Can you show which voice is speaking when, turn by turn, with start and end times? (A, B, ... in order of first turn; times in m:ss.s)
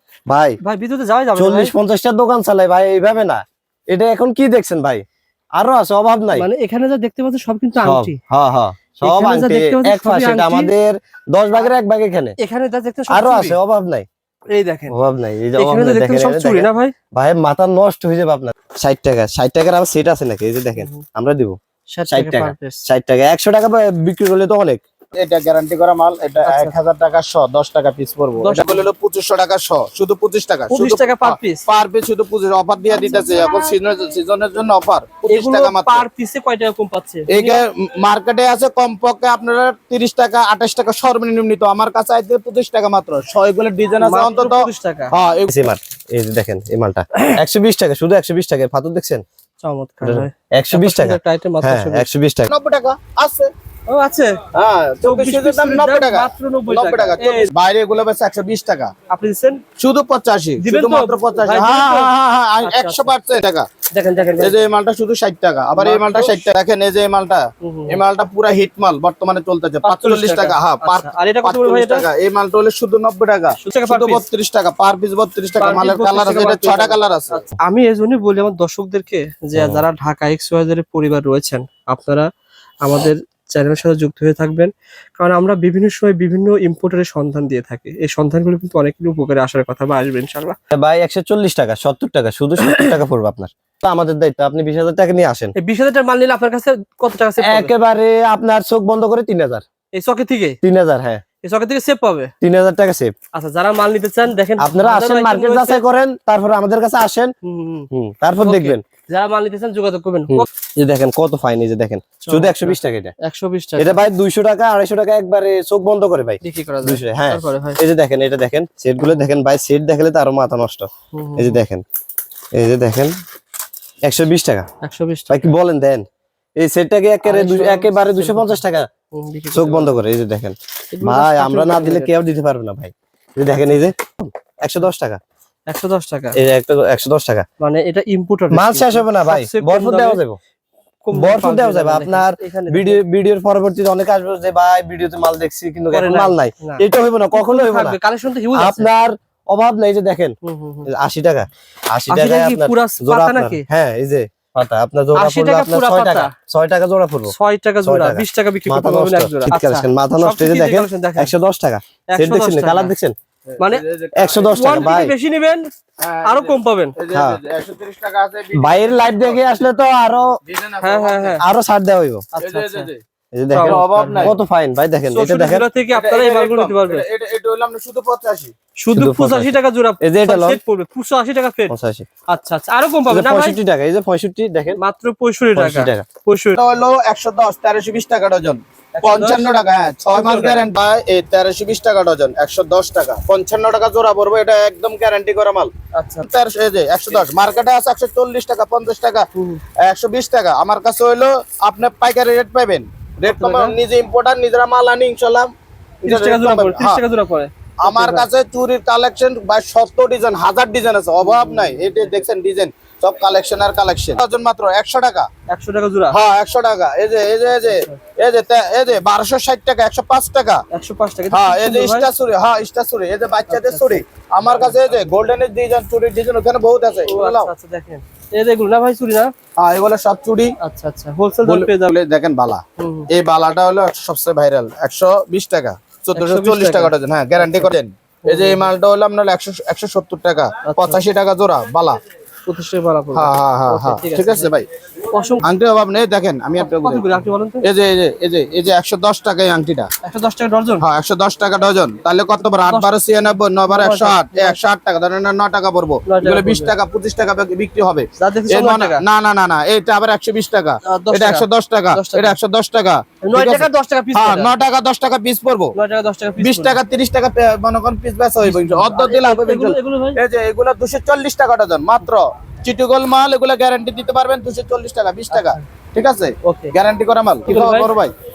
0:00.3-0:00.6 A
0:00.6-0:01.7 B
0:01.4-0:05.0 A
0:05.6-0:06.5 A
0:06.3-0:08.2 B
0:07.8-0:12.4 A
0:09.0-0:10.7 B
0:12.4-0:13.6 B
0:13.1-0:14.1 A
0:14.5-0:15.0 B
0:14.9-0:21.6 A
0:15.6-0:17.0 B
0:20.8-0:21.0 B
0:21.9-0:22.8 B
0:22.1-0:24.8 A
0:25.2-0:36.0 C
0:26.4-0:26.7 B
0:28.4-0:28.8 B
0:30.7-0:31.6 B
0:35.2-0:37.6 B
0:37.3-0:45.6 C
0:44.0-0:45.1 B
0:45.5-0:49.2 A
0:49.6-0:52.1 B
0:50.0-0:52.5 A
0:52.5-0:53.5 C
0:53.9-0:54.4 B
0:54.5-0:58.9 C
0:55.0-0:57.5 B
0:59.1-0:59.6 B
0:59.8-1:03.7 C
1:00.6-1:03.1 B
1:03.9-1:04.6 B
1:04.4-1:17.4 C
1:05.8-1:06.5 B
1:07.6-1:08.0 B
1:09.8-1:12.1 B
1:13.6-1:14.2 B
1:15.6-1:22.3 B
1:19.6-1:19.8 A
1:22.8-1:30.6 B
1:30.7-1:35.5 A
1:32.6-1:33.0 B
1:35.6-1:37.7 B
1:37.4-1:39.6 A
1:39.9-1:40.6 B
1:40.6-1:41.2 A
1:41.4-1:42.3 B
1:42.4-1:43.1 A
1:43.3-1:45.8 B
1:44.6-1:47.3 A
1:47.4-1:47.9 B
1:47.9-1:48.8 A
1:48.4-1:50.5 B
1:50.3-1:53.1 A
1:52.2-1:54.0 B
1:53.8-2:01.8 A
1:56.4-1:57.8 B
2:01.1-2:01.6 B
2:02.5-2:03.1 A
2:04.0-2:04.7 A
2:04.8-2:05.5 B
2:05.3-2:06.0 A
2:06.6-2:08.9 A
2:07.2-2:08.6 B
2:09.1-2:09.9 B
2:09.5-2:15.2 A
2:10.9-2:12.1 B
2:13.5-2:13.8 B
2:15.7-2:16.4 B
2:16.4-2:17.4 A
2:17.6-2:20.2 B
2:18.5-2:20.4 A
2:21.0-2:23.0 B
2:21.1-2:28.0 A
2:25.9-2:28.9 B
2:28.5-2:43.2 A
2:30.4-2:30.9 B
2:32.1-2:33.6 B
2:35.1-2:36.3 B
2:37.3-2:41.3 B
2:42.1-2:42.9 B
2:43.5-2:45.0 C
2:43.6-2:43.8 B
2:44.1-2:45.1 A
2:44.5-2:45.7 B
2:46.0-2:49.6 C
2:46.2-2:46.9 B
2:47.1-2:47.4 A
2:48.5-2:50.4 A
2:50.4-2:51.4 C
2:50.8-2:51.4 B
2:51.4-2:52.3 A
2:52.3-2:52.9 B
2:52.4-2:53.0 C
2:53.3-2:55.6 A
2:53.5-2:54.4 B
2:53.6-2:54.3 C
2:55.1-2:57.0 B
2:55.9-2:58.5 C
2:58.8-3:01.7 B
2:58.9-3:00.6 A
3:01.7-3:02.1 A
3:02.3-3:03.6 B
3:03.1-3:04.8 A
3:04.7-3:06.6 B
3:05.6-3:06.0 A
3:06.6-3:15.7 C
3:08.9-3:10.7 B
3:15.9-3:16.3 B
3:16.2-3:19.3 C
3:19.3-3:19.6 B
3:19.8-3:25.5 C
3:23.2-3:23.8 B
3:26.0-3:27.0 C
3:26.0-3:28.3 B
3:27.8-3:35.3 C
3:31.2-3:32.2 B
3:35.5-3:36.2 B
3:36.1-3:40.6 C
3:37.7-3:38.0 B
3:40.7-3:42.1 B
3:41.3-3:47.5 C
3:43.5-3:44.7 B
3:47.0-3:49.3 B
3:49.6-3:50.5 C
3:50.6-3:51.9 B
3:51.4-4:02.0 C
3:52.8-3:53.1 B
3:56.2-3:57.7 B
3:58.2-3:58.7 B
4:00.6-4:01.0 B
4:02.4-4:04.5 B
4:03.1-4:04.7 C
4:05.1-4:05.4 B
4:05.4-4:09.9 C
4:06.6-4:07.7 B
4:10.0-4:10.8 B
4:10.8-4:25.7 C
4:13.7-4:14.6 B
4:16.0-4:16.7 B
4:18.2-4:19.0 B
4:20.8-4:22.4 B
4:23.2-4:24.6 B
4:25.7-4:26.8 B
4:26.4-4:38.1 C
4:28.4-4:30.2 B
4:35.3-4:35.6 B
4:36.4-4:36.8 B
4:37.5-4:37.9 B